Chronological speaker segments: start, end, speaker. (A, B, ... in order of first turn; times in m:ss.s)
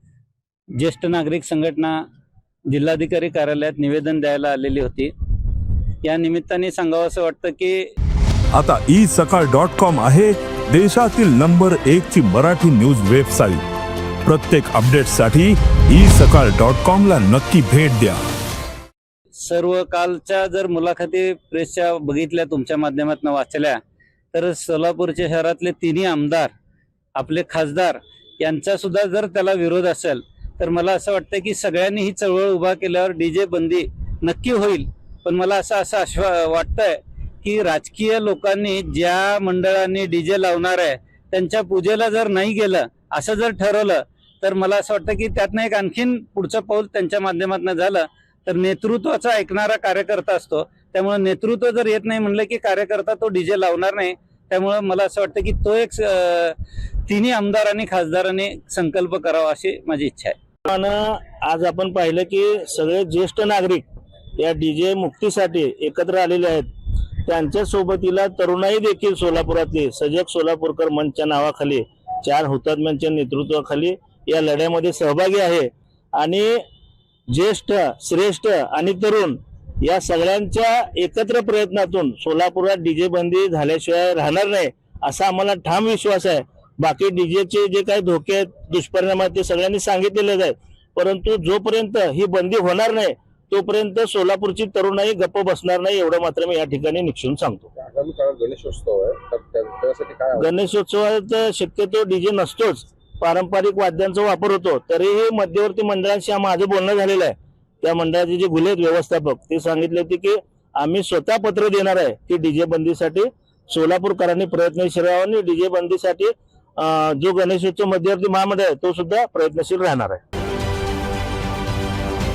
0:00.8-0:02.0 A
0:02.7-0:05.1 A
0:06.0-0:07.9 A
0:08.5-0:13.6 B
0:14.2-0:18.2 B
0:19.4-0:23.8 A
0:24.3-0:26.5 A
0:27.2-1:00.3 A
1:00.7-1:03.9 C
1:04.4-1:06.7 C
1:07.2-1:16.6 C
1:17.3-1:37.6 C
1:37.8-1:40.6 D
1:40.4-2:00.2 C